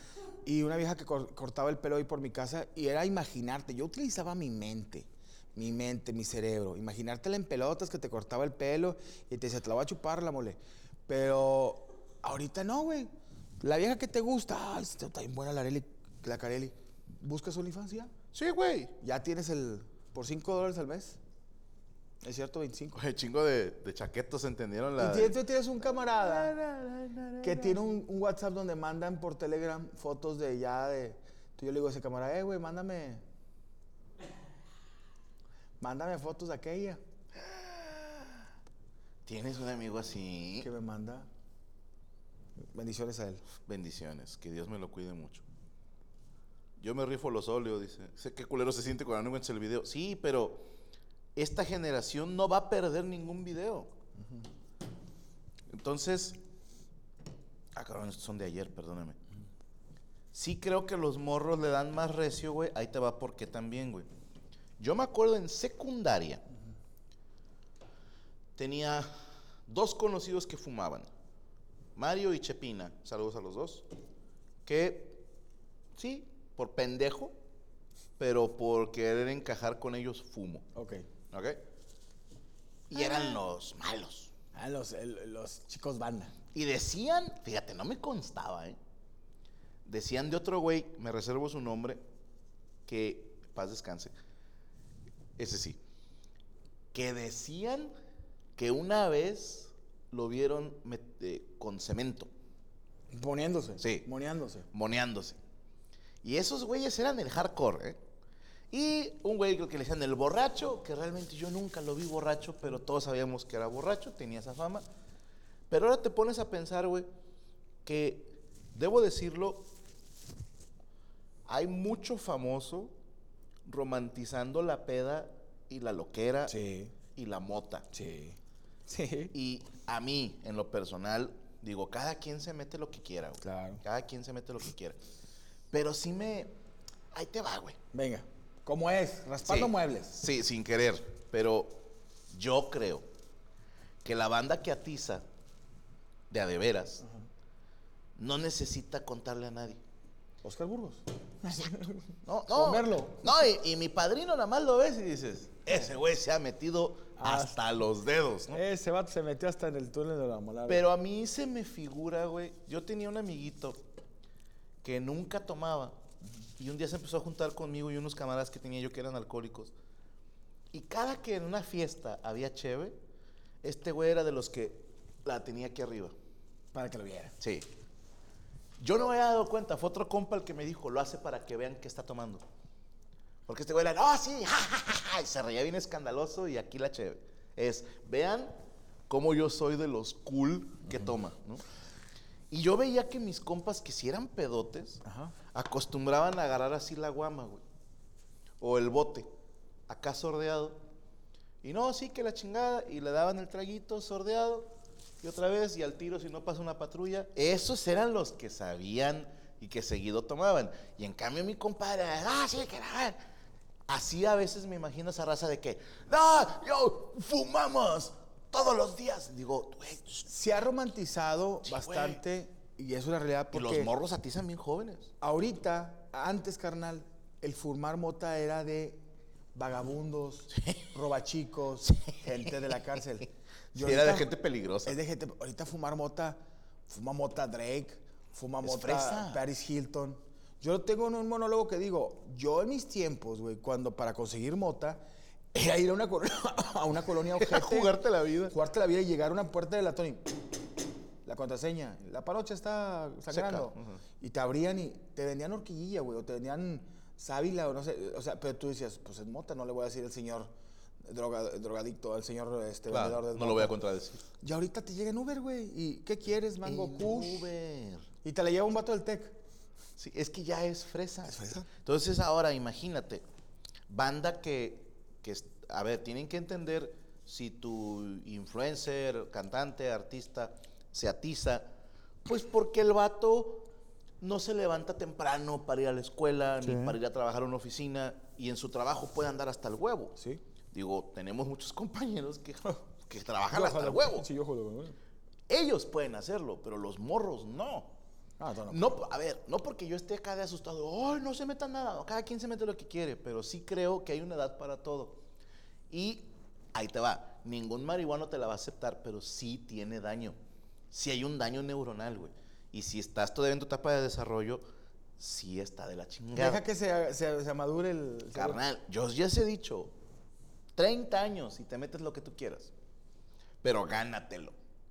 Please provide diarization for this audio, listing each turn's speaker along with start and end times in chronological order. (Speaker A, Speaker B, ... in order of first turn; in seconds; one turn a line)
Speaker A: 0.4-18.1
Speaker B: 18.3-18.9
Speaker A: 19.0-21.2
Speaker A: 22.2-23.0
Speaker B: 22.9-25.4
Speaker A: 25.0-26.5
Speaker B: 25.9-27.8
Speaker A: 27.4-33.2
Speaker A: 35.8-37.0
Speaker B: 37.4-38.3
Speaker B: 39.2-40.7
Speaker A: 40.6-41.3
Speaker A: 42.6-43.4
Speaker B: 43.6-45.4
Speaker B: 46.8-50.7
Speaker B: 51.4-53.9
Speaker A: 54.2-54.4
Speaker B: 55.7-56.4
Speaker B: 57.7-59.2
Speaker B: 60.3-64.1
Speaker B: 64.8-66.4
Speaker B: 68.6-69.1
Speaker B: 69.7-71.1
Speaker B: 72.0-73.8
Speaker B: 74.7-75.2
Speaker B: 76.0-77.3
Speaker B: 78.2-80.7
Speaker A: 80.7-81.1
Speaker B: 81.3-81.6
Speaker B: 82.9-84.3
Speaker A: 83.0-83.4
Speaker A: 84.5-86.3
Speaker B: 86.5-88.8
Speaker B: 89.8-92.0
Speaker B: 92.9-94.1
Speaker B: 95.4-95.8
Speaker B: 96.9-97.9
Speaker B: 98.6-102.3
Speaker A: 103.1-104.7
Speaker B: 103.8-104.0
Speaker B: 104.7-105.4
Speaker B: 106.2-108.0
Speaker B: 108.7-114.8
Speaker B: 115.7-117.1
Speaker B: 117.8-119.7
Speaker B: 121.5-122.9
Speaker B: 123.6-126.5
Speaker A: 126.5-126.9
Speaker B: 127.2-127.9
Speaker A: 127.9-129.3
Speaker B: 129.3-135.0
Speaker A: 133.4-133.8
Speaker B: 135.7-136.5
Speaker B: 137.1-137.8
Speaker A: 137.9-140.2
Speaker B: 139.4-143.1
Speaker B: 144.0-145.2
Speaker B: 146.3-147.0
Speaker B: 148.2-149.8
Speaker A: 150.4-153.5
Speaker B: 152.2-158.6
Speaker A: 157.2-157.6
Speaker A: 158.5-160.8
Speaker B: 160.7-163.8
Speaker B: 164.8-165.9
Speaker B: 166.6-169.7
Speaker B: 170.7-172.9
Speaker B: 173.6-176.1
Speaker A: 176.7-177.3
Speaker B: 177.4-177.7
Speaker B: 178.8-182.4
Speaker B: 183.5-188.6
Speaker B: 189.1-191.6
Speaker B: 192.5-197.6
Speaker A: 195.0-195.3
Speaker B: 198.6-199.3
Speaker B: 199.9-200.8
Speaker B: 201.6-204.7
Speaker B: 205.2-213.2
Speaker B: 213.9-220.3
Speaker A: 220.2-223.9
Speaker B: 221.6-222.2
Speaker B: 223.5-225.1
Speaker A: 225.2-229.0
Speaker A: 229.5-234.3
Speaker B: 230.5-230.8
Speaker B: 231.8-232.5
Speaker B: 233.7-234.9
Speaker A: 234.8-247.9
Speaker B: 238.6-239.4
Speaker B: 247.4-248.6
Speaker A: 248.5-250.4
Speaker A: 251.2-263.7
Speaker B: 253.3-254.0
Speaker B: 262.9-264.2
Speaker A: 264.4-267.5
Speaker B: 266.6-268.1
Speaker A: 268.2-269.4
Speaker B: 270.0-273.2
Speaker A: 271.3-271.7
Speaker B: 273.9-281.7
Speaker B: 282.2-283.7
Speaker B: 284.2-290.2
Speaker A: 286.6-287.0
Speaker A: 290.2-290.4
Speaker B: 290.7-294.3
Speaker A: 293.5-295.0
Speaker B: 295.5-297.9
Speaker A: 298.4-299.0
Speaker B: 298.7-305.2
Speaker B: 305.9-310.4
Speaker B: 310.9-314.6
Speaker B: 315.2-316.6
Speaker A: 316.3-318.6
Speaker B: 318.3-319.9
Speaker B: 320.8-322.7
Speaker B: 323.6-324.6